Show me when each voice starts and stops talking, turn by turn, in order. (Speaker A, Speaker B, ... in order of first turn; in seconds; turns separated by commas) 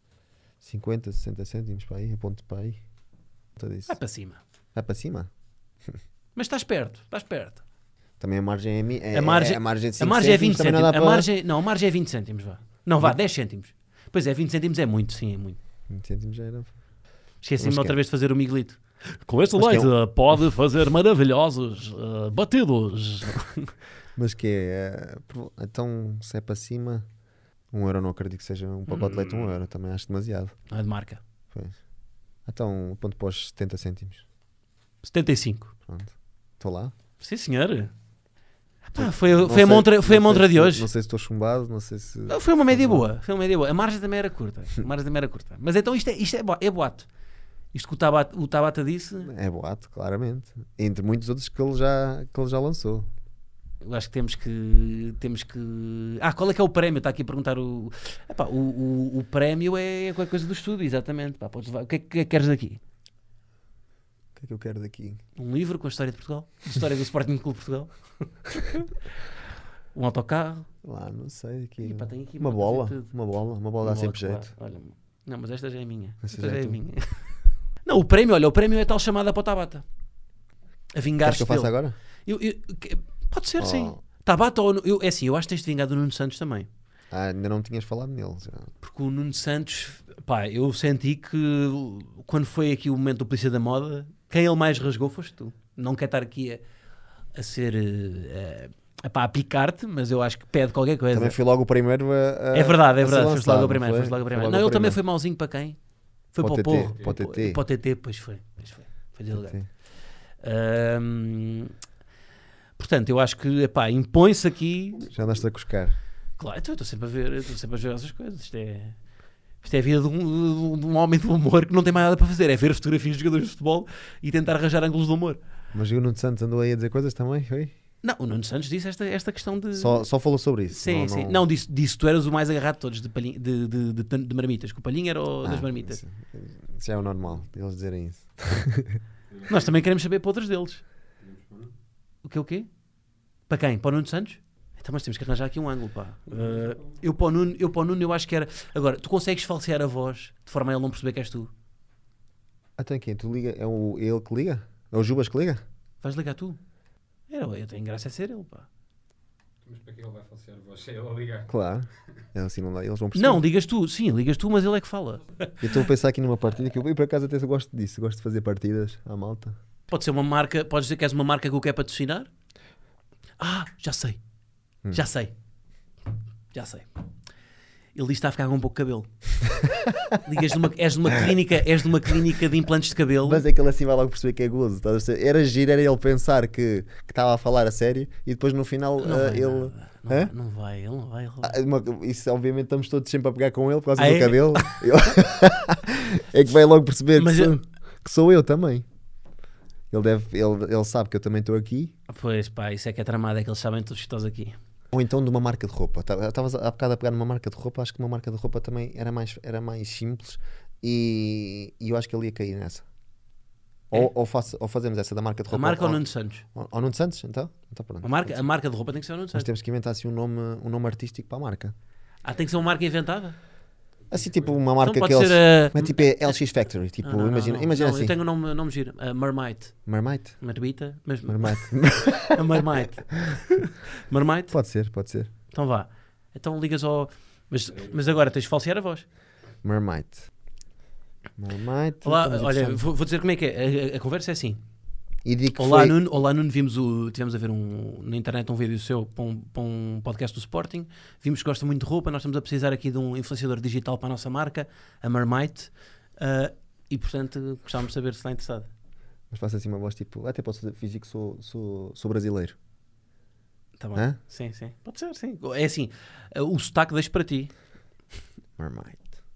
Speaker A: 0.6-2.8, Speaker A: 3.6-4.0, Speaker B: 3.9-4.4, Speaker A: 4.8-5.3, Speaker B: 6.3-7.6, Speaker A: 8.2-11.3, Speaker B: 9.1-15.6, Speaker A: 15.9-16.8, Speaker B: 17.4-23.7, Speaker A: 17.6-18.0, Speaker A: 19.6-19.9, Speaker A: 24.2-27.1, Speaker A: 27.7-30.6, Speaker B: 28.9-29.5, Speaker B: 30.7-31.2, Speaker A: 31.5-31.8, Speaker A: 32.5-34.2, Speaker B: 35.0-35.7, Speaker A: 35.9-36.9, Speaker B: 37.2-37.9, Speaker B: 38.9-40.9, Speaker A: 39.0-43.0, Speaker B: 42.3-47.1, Speaker B: 47.7-49.3, Speaker A: 49.2-53.1, Speaker B: 53.8-62.8, Speaker A: 64.3-65.2, Speaker B: 65.4-68.9, Speaker B: 69.9-70.7, Speaker A: 70.8-74.5, Speaker B: 71.8-73.1, Speaker B: 73.8-77.2, Speaker A: 76.2-76.8, Speaker B: 77.9-79.8, Speaker B: 81.0-81.7, Speaker A: 81.2-82.0, Speaker B: 82.3-86.7, Speaker A: 83.6-84.0, Speaker A: 87.1-88.7, Speaker B: 88.8-96.6, Speaker B: 97.3-101.4, Speaker A: 101.1-105.0, Speaker B: 102.5-105.8, Speaker B: 106.3-109.6, Speaker A: 106.4-107.6, Speaker A: 109.3-109.7, Speaker B: 110.4-111.7, Speaker B: 112.8-115.1, Speaker A: 115.1-116.0, Speaker B: 116.4-119.0, Speaker B: 119.6-125.4, Speaker A: 125.7-127.7, Speaker B: 128.0-130.1, Speaker A: 129.7-131.4, Speaker B: 130.7-136.0, Speaker A: 135.4-139.0, Speaker C: 139.3-139.8, Speaker B: 139.5-140.8, Speaker C: 141.2-141.7, Speaker B: 142.2-142.7, Speaker B: 143.5-151.5, Speaker C: 146.3-147.0, Speaker A: 152.8-155.6, Speaker B: 156.0-156.6, Speaker B: 157.3-158.7, Speaker C: 159.6-161.5, Speaker A: 161.5-163.4, Speaker B: 163.1-165.3, Speaker A: 165.6-169.6, Speaker B: 169.9-172.3, Speaker B: 173.4-174.2, Speaker B: 174.9-175.3, Speaker B: 176.5-176.9, Speaker B: 177.9-179.1, Speaker A: 179.7-180.1, Speaker B: 180.2-183.4, Speaker A: 183.2-190.3, Speaker B: 189.0-191.5, Speaker A: 191.4-198.8, Speaker B: 194.0-194.8, Speaker B: 197.2-197.6, Speaker A: 199.9-201.9, Speaker B: 202.1-204.6, Speaker A: 204.9-212.9, Speaker A: 213.9-216.0, Speaker B: 215.5-216.4, Speaker A: 216.5-218.5, Speaker B: 218.0-219.5, Speaker A: 219.3-221.8, Speaker B: 222.2-223.4, Speaker C: 224.1-224.6, Speaker A: 224.1-228.2, Speaker B: 224.8-226.0, Speaker B: 227.0-229.8, Speaker A: 229.9-230.4, Speaker B: 230.4-231.7, Speaker A: 231.3-232.6, Speaker B: 232.3-233.3, Speaker B: 234.1-234.5, Speaker A: 234.5-235.3, Speaker B: 235.5-239.1, Speaker C: 237.7-238.3, Speaker A: 239.6-240.3, Speaker A: 241.4-242.8, Speaker B: 242.0-244.6, Speaker A: 245.2-246.0, Speaker B: 245.6-258.7, Speaker A: 259.3-262.6, Speaker B: 263.8-267.5, Speaker A: 268.6-269.1